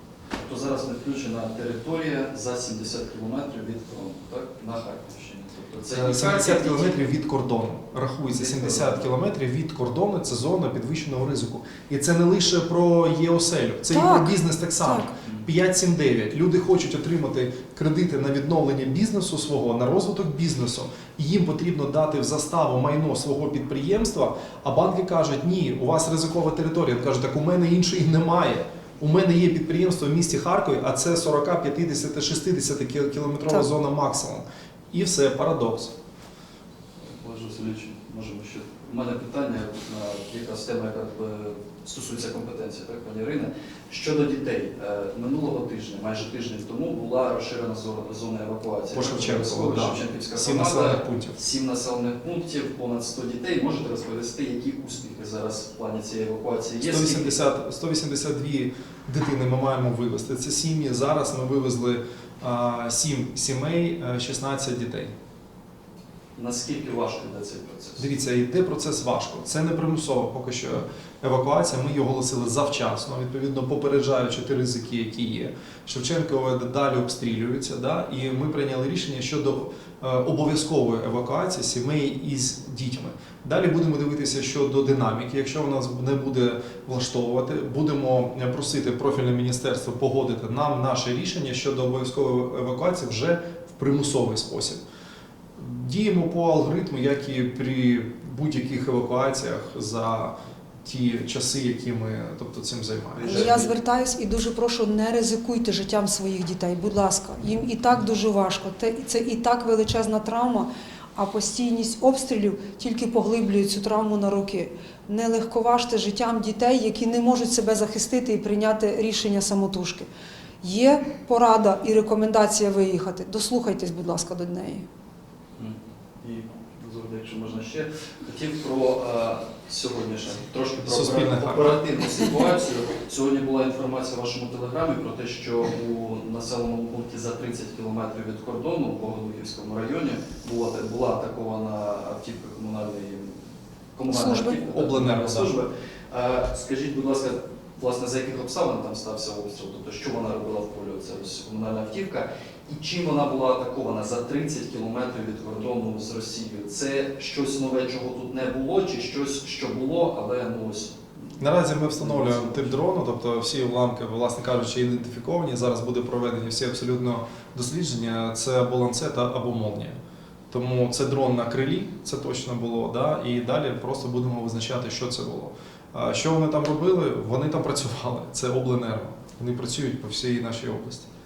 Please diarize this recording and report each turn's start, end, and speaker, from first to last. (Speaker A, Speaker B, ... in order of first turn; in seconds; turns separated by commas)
Speaker A: 0.3-7.0, Speaker B: 5.9-35.9, Speaker A: 8.4-9.1, Speaker C: 13.9-15.1, Speaker A: 37.0-57.4, Speaker B: 48.9-51.4, Speaker B: 56.8-65.1, Speaker A: 66.3-68.1, Speaker B: 68.0-94.8, Speaker B: 95.6-103.5, Speaker A: 103.2-103.7, Speaker C: 103.3-120.1, Speaker C: 120.6-124.8, Speaker A: 125.5-143.4, Speaker B: 130.8-131.8, Speaker A: 143.9-161.4, Speaker C: 144.1-144.5, Speaker B: 144.3-145.6, Speaker B: 161.4-170.0, Speaker A: 162.0-162.7, Speaker B: 170.5-181.1